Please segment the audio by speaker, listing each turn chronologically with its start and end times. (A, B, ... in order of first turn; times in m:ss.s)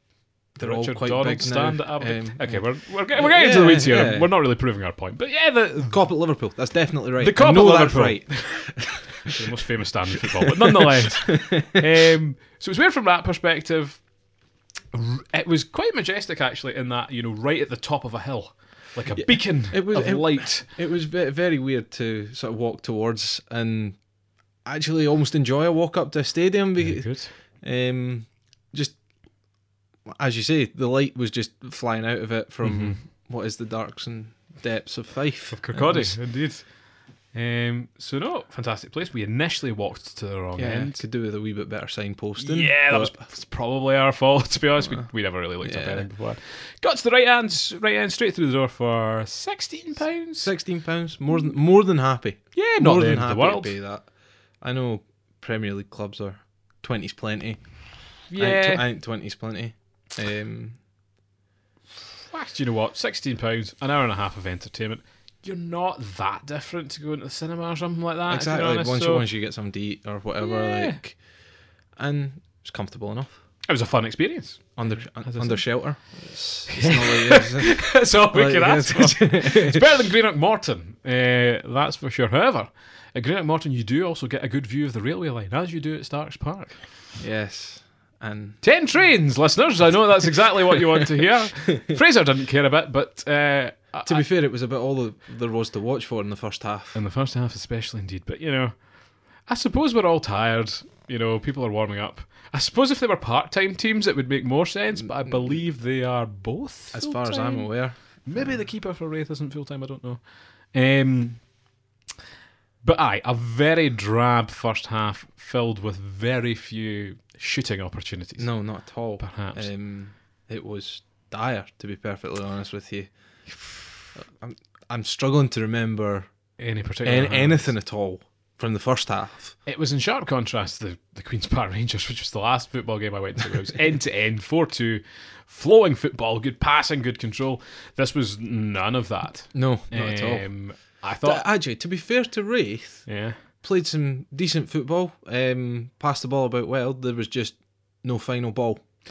0:00.6-0:04.3 A
0:00.6-0:06.0 B
0:05.9-0:09.4 A
0:07.2-0:14.0 B
0:10.5-0:11.8 A
0:14.9-0:20.7 B
0:19.1-0:24.0 A
0:24.6-0:29.0 A
0:26.8-0:27.3 B
0:30.1-0:36.2 A
0:32.6-0:33.0 B
0:35.5-0:36.7 B
0:37.3-0:41.0 B
0:40.6-0:43.3 A
0:42.4-0:50.5 B
0:44.8-0:46.1 A
0:50.4-1:00.8 A
0:52.5-0:53.8 B
0:58.3-0:58.8 B
1:02.3-1:09.3 B
1:08.3-1:11.2 A
1:10.4-1:11.0 B
1:12.0-1:13.4 A
1:13.7-1:15.8 B
1:14.8-1:19.8 A
1:16.7-1:26.9 B
1:27.2-1:28.6 A
1:28.6-1:34.3 B
1:34.0-1:37.0 A
1:36.9-1:38.8 B
1:39.4-1:51.4 B
1:45.3-1:45.6 A
1:46.9-1:48.6 A
1:52.8-1:58.6 B
1:58.4-2:03.1 A
1:59.2-1:59.7 B
2:04.2-2:06.3 A
2:06.6-2:07.7 B
2:07.0-2:09.6 A
2:09.6-2:21.5 B
2:19.5-2:28.8 A
2:23.1-2:23.4 B